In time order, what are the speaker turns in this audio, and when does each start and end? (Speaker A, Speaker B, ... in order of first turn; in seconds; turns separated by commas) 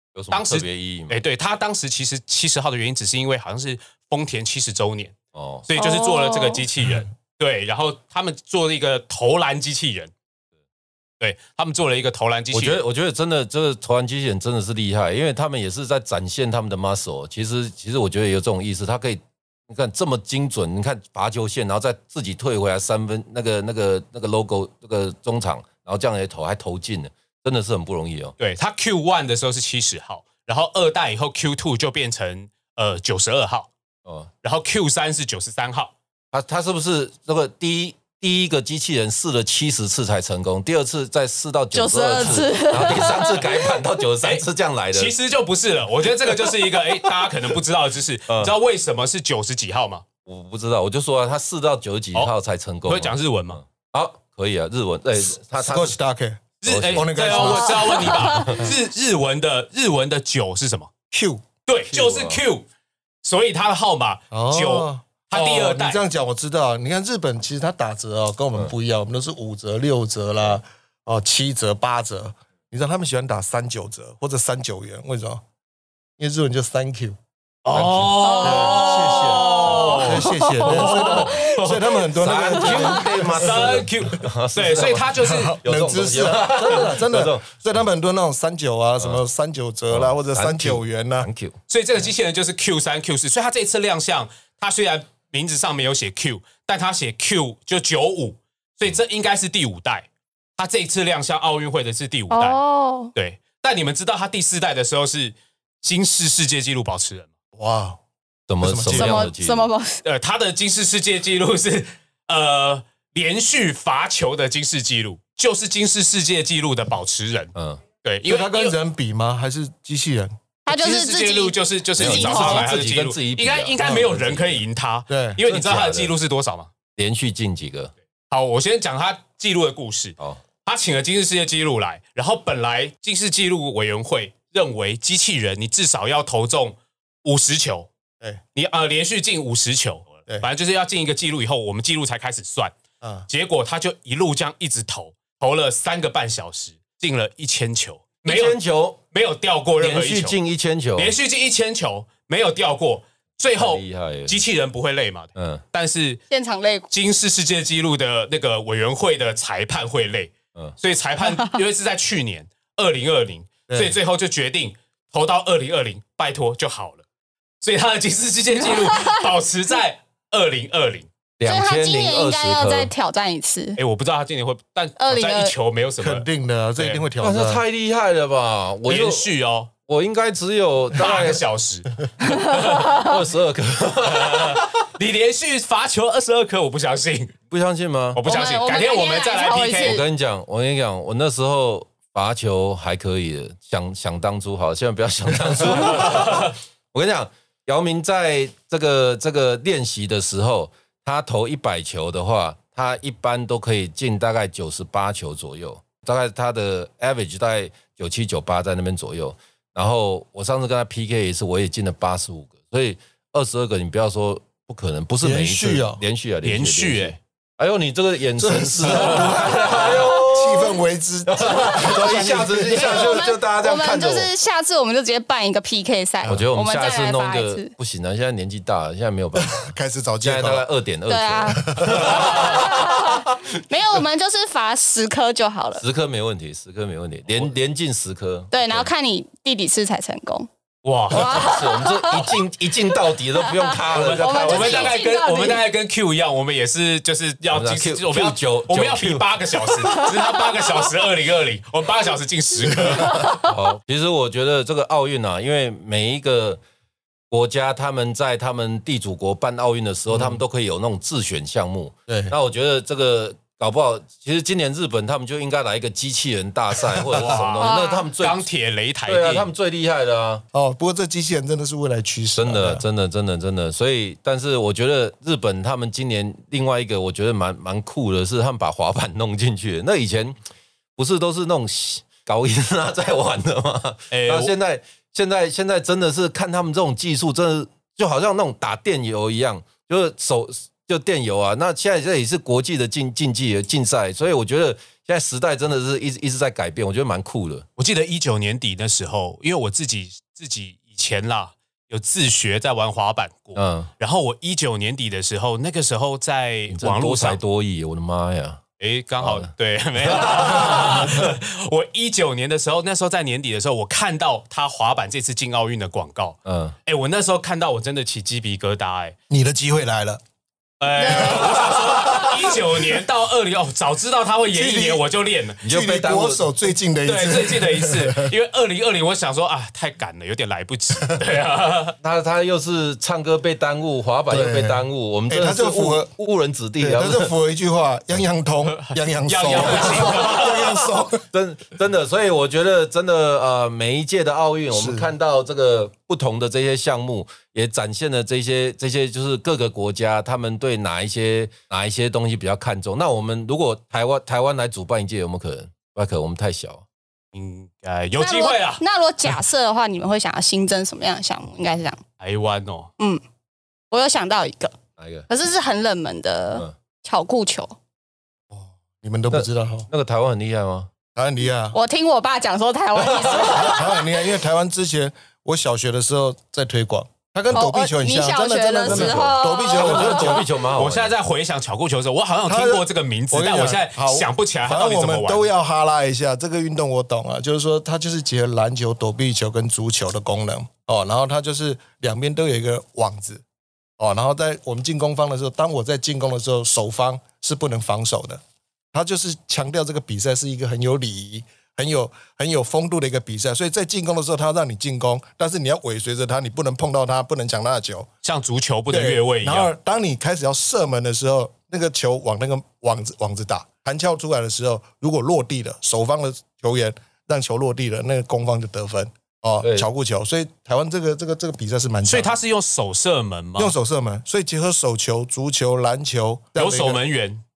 Speaker A: 0.1-1.2, Speaker B: 0.3-10.1, Speaker A: 5.3-5.6, Speaker C: 5.8-6.6, Speaker B: 11.2-12.8, Speaker A: 12.5-28.4, Speaker B: 28.4-33.7, Speaker A: 34.0-34.3, Speaker B: 34.4-35.9, Speaker A: 36.3-45.1, Speaker C: 41.7-43.5, Speaker B: 44.2-50.0, Speaker A: 50.3-56.0, Speaker B: 52.9-53.6, Speaker D: 55.6-58.1, Speaker B: 56.6-60.9, Speaker A: 56.6-58.7, Speaker C: 57.4-58.6, Speaker D: 61.1-61.4, Speaker B: 61.7-62.6, Speaker A: 61.9-62.4, Speaker B: 63.2-66.0, Speaker D: 64.3-75.4, Speaker D: 76.2-77.2, Speaker B: 77.6-82.0, Speaker A: 77.7-79.9, Speaker C: 78.2-81.5, Speaker D: 78.4-83.9, Speaker A: 82.1-87.5, Speaker B: 83.3-85.6, Speaker D: 85.2-91.3, Speaker A: 89.9-91.6, Speaker B: 91.7-102.6, Speaker C: 102.3-103.1, Speaker B: 103.1-107.3, Speaker D: 107.5-108.0, Speaker A: 108.5-109.7, Speaker D: 108.6-109.3, Speaker C: 108.9-110.0, Speaker B: 110.0-118.7, Speaker A: 117.5-117.8, Speaker D: 118.3-120.3, Speaker C: 120.7-122.7, Speaker B: 120.7-126.7, Speaker A: 122.0-124.6, Speaker D: 125.1-125.4, Speaker A: 125.5-126.1, Speaker A: 127.0-127.9, Speaker B: 128.3-137.9, Speaker B: 138.6-142.7, Speaker D: 143.0-143.3, Speaker B: 143.3-148.6, Speaker A: 148.2-149.0, Speaker B: 149.1-150.4, Speaker A: 149.8-151.1, Speaker B: 151.0-156.2, Speaker A: 153.6-154.4, Speaker A: 155.4-155.6, Speaker C: 156.3-156.9, Speaker B: 156.9-167.0, Speaker D: 163.7-163.9, Speaker B: 167.6-171.1, Speaker A: 171.4-172.9, Speaker C: 171.4-173.8, Speaker B: 173.8-177.1, Speaker C: 175.0-175.5, Speaker D: 176.0-177.6, Speaker A: 177.2-179.2, Speaker B: 178.9-179.7, Speaker A: 179.9-181.4, Speaker B: 180.9-183.1, Speaker C: 182.3-182.8, Speaker A: 182.8-184.8, Speaker B: 184.1-187.3, Speaker A: 187.5-188.2, Speaker B: 188.1-190.0, Speaker C: 188.3-190.0, Speaker A: 189.8-224.3, Speaker B: 195.8-196.5, Speaker D: 215.2-216.0, Speaker B: 216.4-217.2, Speaker D: 218.4-223.2, Speaker C: 222.0-227.7, Speaker A: 226.2-229.6, Speaker D: 229.4-230.7, Speaker A: 230.2-233.3, Speaker C: 231.1-235.8, Speaker D: 231.6-232.5, Speaker A: 235.8-238.9, Speaker C: 238.5-240.5, Speaker B: 240.8-241.6, Speaker C: 241.1-242.4, Speaker A: 241.1-244.9, Speaker C: 243.4-245.6, Speaker B: 243.9-253.4, Speaker A: 247.5-249.3, Speaker C: 249.8-250.4, Speaker A: 253.3-256.6, Speaker A: 257.3-268.4, Speaker D: 260.1-260.4, Speaker D: 262.1-262.3, Speaker D: 266.8-267.4, Speaker B: 267.1-269.5, Speaker C: 267.6-268.1, Speaker A: 269.1-270.4, Speaker D: 270.5-272.8, Speaker A: 272.4-280.4, Speaker A: 281.0-297.6, Speaker B: 284.1-284.6, Speaker B: 297.8-307.4, Speaker A: 303.6-303.9, Speaker A: 306.7-308.6, Speaker B: 308.8-319.1, Speaker A: 309.2-309.5, Speaker A: 310.0-311.1, Speaker A: 316.4-316.8, Speaker D: 319.3-320.2, Speaker B: 320.8-325.6, Speaker C: 320.9-321.6, Speaker D: 321.2-322.6, Speaker D: 324.5-325.1, Speaker D: 325.6-328.3, Speaker A: 325.6-326.5, Speaker B: 327.1-331.9, Speaker A: 332.0-337.3, Speaker D: 334.3-336.1, Speaker D: 336.8-341.2, Speaker B: 338.7-340.8, Speaker A: 339.8-356.8, Speaker D: 344.7-345.1, Speaker B: 357.3-358.8, Speaker C: 358.2-362.0, Speaker B: 362.2-362.9, Speaker C: 363.9-364.7, Speaker A: 365.0-365.3, Speaker C: 365.3-367.7, Speaker D: 368.5-369.9, Speaker A: 369.3-370.9, Speaker D: 371.1-371.8, Speaker C: 371.7-374.1, Speaker A: 372.9-373.8, Speaker D: 373.3-380.5, Speaker C: 377.5-380.4, Speaker A: 378.9-381.1, Speaker B: 380.7-385.5, Speaker D: 382.4-393.4, Speaker D: 394.0-398.4, Speaker D: 398.9-408.1, Speaker B: 408.2-409.7, Speaker D: 408.9-422.4, Speaker A: 419.6-419.9, Speaker B: 422.1-423.7, Speaker D: 423.6-427.0, Speaker B: 426.6-427.4